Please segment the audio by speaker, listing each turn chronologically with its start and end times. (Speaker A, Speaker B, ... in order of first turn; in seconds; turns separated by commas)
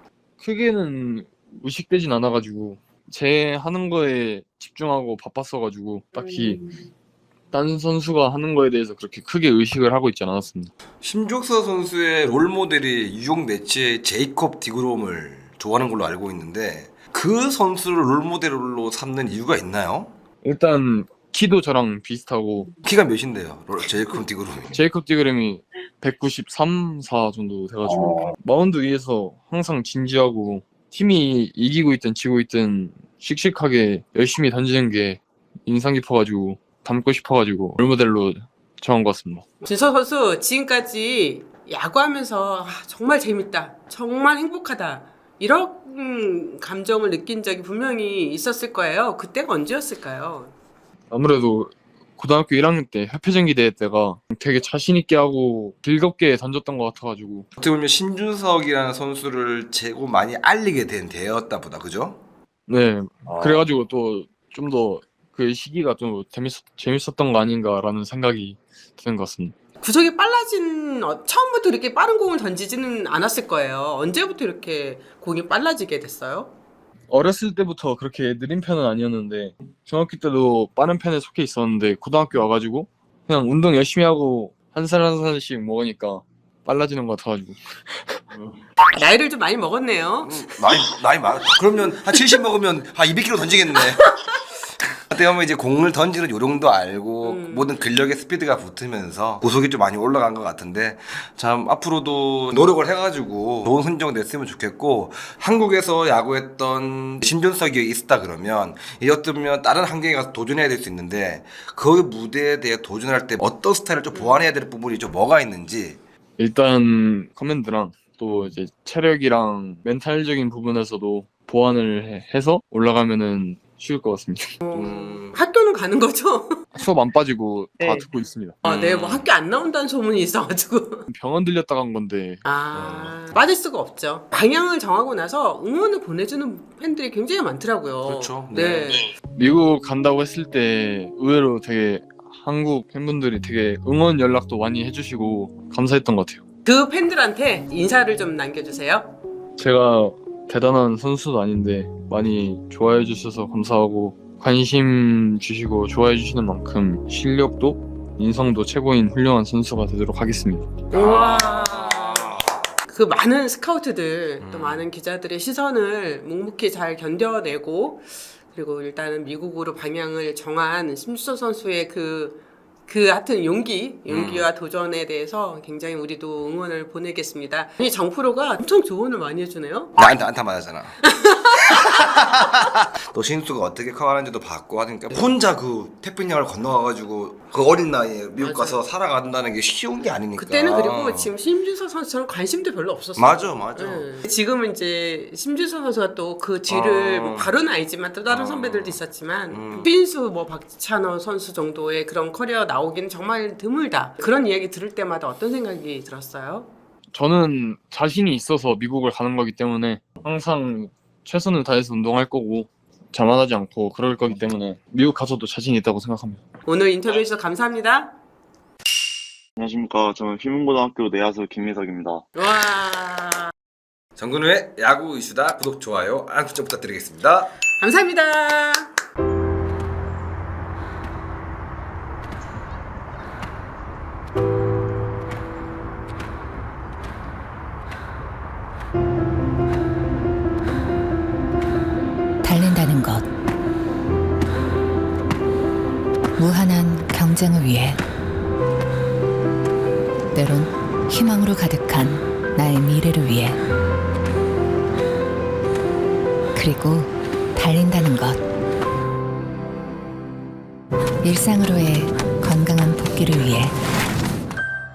Speaker A: 0.4-6.6, Speaker B: 6.1-6.8, Speaker A: 7.5-10.7, Speaker C: 11.0-20.1, Speaker A: 20.4-22.7, Speaker C: 22.8-24.8, Speaker A: 24.7-39.5, Speaker B: 39.6-50.5, Speaker A: 51.1-57.5, Speaker C: 57.6-62.2, Speaker A: 62.7-69.5, Speaker C: 63.3-63.6, Speaker B: 69.8-76.5, Speaker A: 77.1-88.2, Speaker C: 88.3-88.6, Speaker B: 88.9-90.8, Speaker C: 90.2-94.1, Speaker C: 95.1-116.0, Speaker B: 97.2-97.8, Speaker B: 114.1-114.5, Speaker A: 116.4-124.6, Speaker B: 124.6-126.6, Speaker C: 124.7-125.3, Speaker A: 126.7-128.6, Speaker B: 127.8-128.1, Speaker B: 128.6-131.0, Speaker C: 128.6-129.2, Speaker A: 131.1-132.4, Speaker B: 132.4-139.1, Speaker C: 132.7-133.2, Speaker C: 138.0-139.1, Speaker A: 139.3-146.4, Speaker B: 146.7-149.1, Speaker A: 149.6-160.7, Speaker B: 160.9-162.3, Speaker C: 160.9-162.6, Speaker B: 162.9-179.9, Speaker C: 164.4-164.9, Speaker C: 174.1-174.5, Speaker C: 180.0-181.0, Speaker B: 181.1-181.9, Speaker C: 181.7-191.3, Speaker B: 188.4-188.8, Speaker B: 190.4-206.7, Speaker C: 193.2-194.1, Speaker C: 196.7-197.5, Speaker C: 198.3-199.9, Speaker A: 207.1-216.4, Speaker B: 216.7-218.1, Speaker D: 219.6-222.2, Speaker B: 222.3-223.5, Speaker C: 224.2-227.5, Speaker B: 227.8-228.9, Speaker E: 242.4-243.2, Speaker E: 246.4-248.0, Speaker E: 250.3-253.6, Speaker E: 256.5-258.4, Speaker E: 261.2-263.8